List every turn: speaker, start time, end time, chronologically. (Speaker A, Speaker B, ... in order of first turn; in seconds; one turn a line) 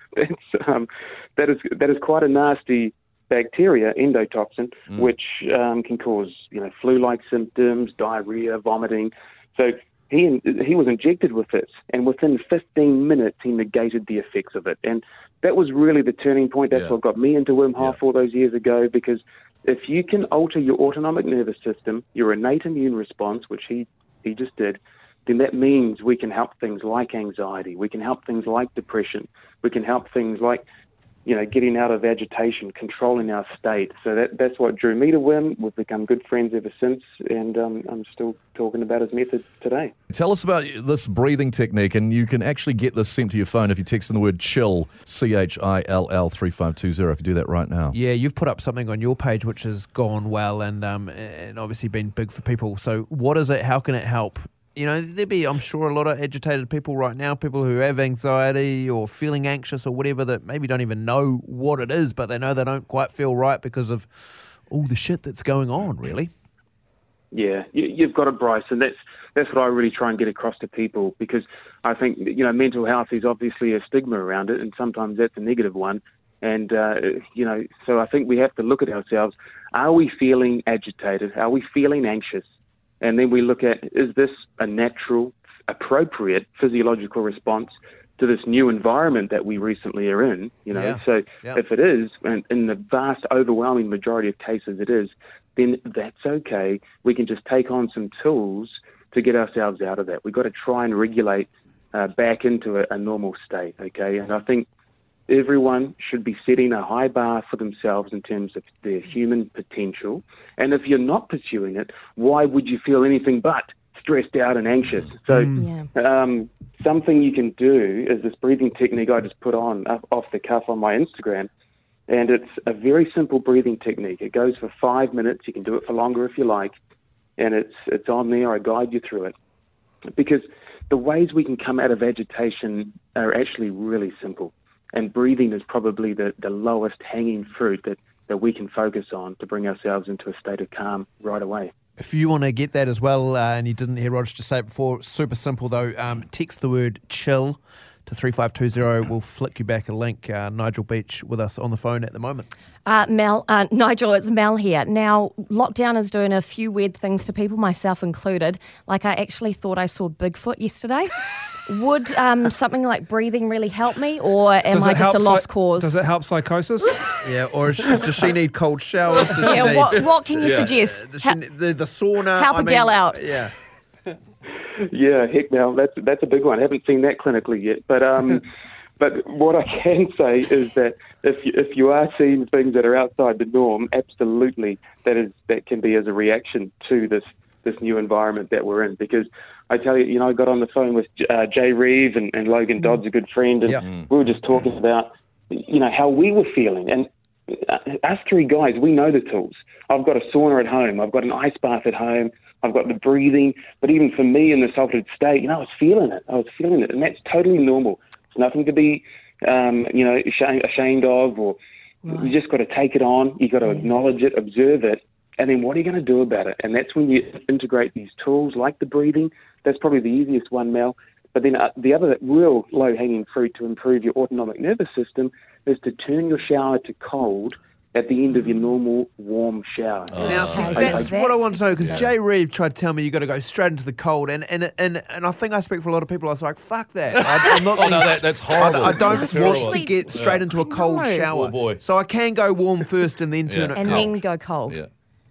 Speaker A: 0.1-30.6
Speaker A: 31.2-39.9
Speaker B: 40.1-48.0
Speaker C: 47.9-66.3
Speaker A: 67.3-82.5
Speaker A: 83.0-104.7
Speaker C: 90.7-91.6
Speaker A: 105.3-121.5
Speaker D: 115.3-115.7
Speaker E: 115.5-115.9
Speaker A: 122.1-126.7
Speaker A: 127.4-129.3
Speaker A: 130.1-141.7
Speaker C: 142.0-152.5
Speaker E: 152.8-165.9
Speaker D: 164.7-168.0
Speaker C: 167.2-173.5
Speaker E: 169.4-171.4
Speaker E: 172.3-173.2
Speaker A: 174.8-178.4
Speaker A: 179.0-231.1
Speaker E: 212.0-212.3
Speaker E: 213.6-213.9
Speaker B: 230.1-230.9
Speaker C: 230.2-244.2
Speaker E: 230.5-232.0
Speaker B: 231.8-232.1
Speaker B: 237.1-240.4
Speaker E: 238.8-241.3
Speaker B: 241.3-241.8
Speaker B: 243.5-244.1
Speaker E: 243.7-244.8